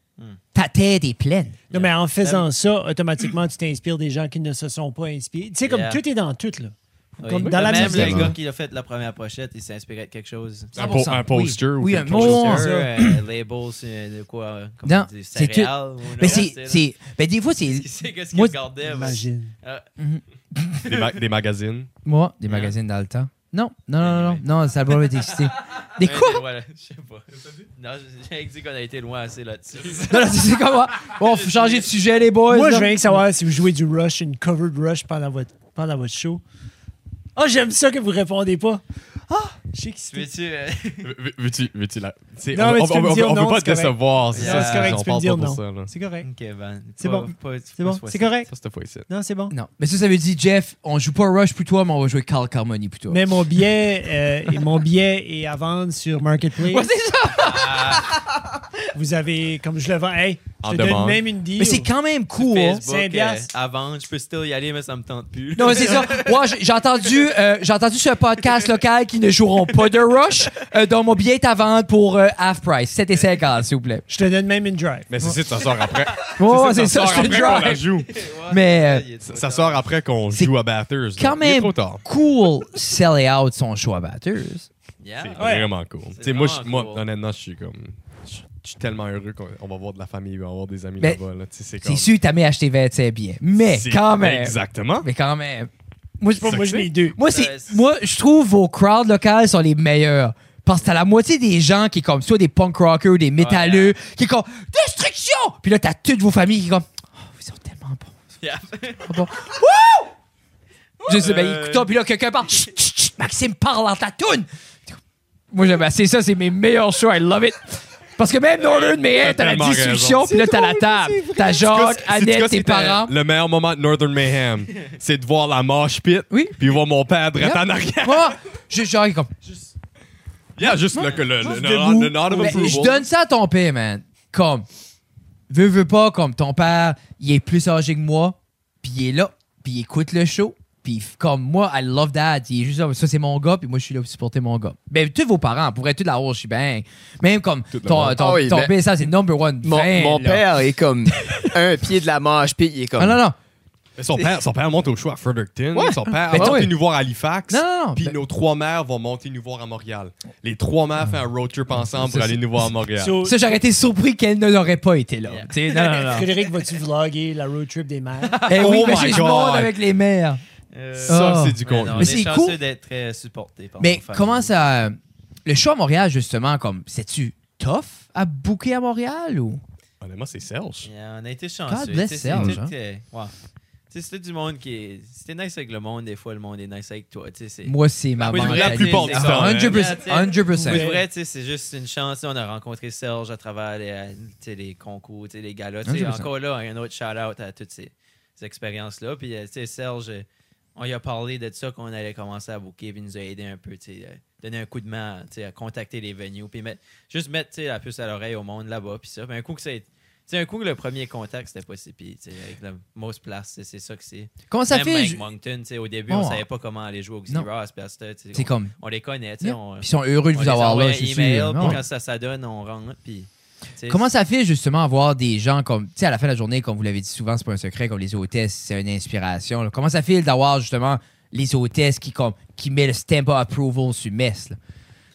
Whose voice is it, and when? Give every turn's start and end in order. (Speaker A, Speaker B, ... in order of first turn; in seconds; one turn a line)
Speaker A: 0.5-1.6
Speaker B: 1.7-2.5
Speaker C: 1.7-8.3
Speaker B: 5.7-6.0
Speaker B: 7.2-11.1
Speaker D: 7.4-8.3
Speaker A: 7.7-8.3
Speaker D: 10.7-12.7
Speaker A: 10.8-13.2
Speaker B: 12.1-16.8
Speaker C: 12.4-13.0
Speaker A: 14.8-18.5
Speaker B: 17.6-19.9
Speaker C: 18.8-19.5
Speaker A: 20.0-21.1
Speaker D: 20.8-21.9
Speaker A: 22.0-26.4
Speaker B: 22.5-22.7
Speaker B: 24.0-24.4
Speaker B: 25.3-32.0
Speaker A: 30.1-33.2
Speaker C: 32.5-36.4
Speaker C: 37.4-40.3
Speaker B: 40.1-41.1
Speaker D: 41.0-45.9
Speaker C: 42.5-46.3
Speaker B: 44.3-45.0
Speaker B: 46.2-48.4
Speaker C: 47.0-48.5
Speaker D: 48.5-49.1
Speaker C: 49.1-49.5
Speaker A: 49.5-53.2
Speaker C: 53.1-56.9
Speaker A: 56.6-58.4
Speaker B: 57.3-58.2
Speaker C: 58.9-61.9
Speaker D: 60.6-61.2
Speaker A: 61.6-62.8
Speaker B: 62.3-66.5
Speaker C: 62.8-63.5
Speaker A: 65.5-74.0
Speaker B: 69.9-70.3
Speaker C: 74.1-75.1
Speaker D: 75.1-78.1
Speaker A: 76.4-77.8
Speaker B: 77.3-79.9
Speaker A: 78.5-79.0
Speaker D: 79.2-82.0
Speaker A: 81.2-84.7
Speaker B: 85.0-85.5
Speaker D: 85.2-92.1
Speaker C: 85.4-85.7
Speaker B: 86.1-87.0
Speaker A: 91.8-108.1
Speaker D: 93.6-95.1
Speaker C: 96.4-97.2
Speaker D: 96.4-96.8
Speaker B: 97.2-97.8
Speaker B: 103.4-104.0
Speaker B: 108.4-109.3
Speaker A: 109.0-110.1
Speaker B: 111.0-111.9
Speaker A: 111.0-115.0
Speaker A: 115.5-123.1
Speaker D: 119.1-120.4
Speaker D: 121.4-128.4
Speaker A: 126.3-126.6
Speaker A: 127.4-129.3
Speaker D: 130.6-133.0
Speaker A: 130.6-131.2
Speaker C: 131.2-132.9
Speaker A: 132.3-134.7
Speaker A: 135.5-150.5
Speaker D: 147.7-148.2
Speaker E: 148.1-148.8
Speaker E: 149.6-153.2
Speaker A: 153.0-153.3
Speaker D: 154.0-163.2
Speaker E: 155.7-156.7
Speaker A: 156.1-156.7
Speaker A: 157.5-158.2
Speaker A: 161.7-162.7
Speaker C: 162.9-163.6
Speaker A: 163.2-166.3
Speaker B: 165.2-166.4
Speaker C: 166.1-168.4
Speaker B: 168.2-169.2
Speaker A: 168.4-170.4
Speaker D: 168.6-169.7
Speaker B: 170.7-174.5
Speaker D: 171.0-172.2
Speaker A: 171.1-172.6
Speaker A: 173.8-179.6
Speaker D: 180.0-180.9
Speaker B: 180.8-183.3
Speaker A: 181.7-182.7
Speaker D: 182.3-182.6
Speaker B: 183.9-224.0
Speaker A: 187.6-190.8
Speaker D: 188.2-189.8
Speaker C: 190.5-191.0
Speaker A: 195.8-196.3
Speaker A: 214.5-215.2
Speaker A: 216.1-216.4
Speaker A: 218.3-218.7
Speaker A: 219.4-221.8
Speaker A: 223.9-234.6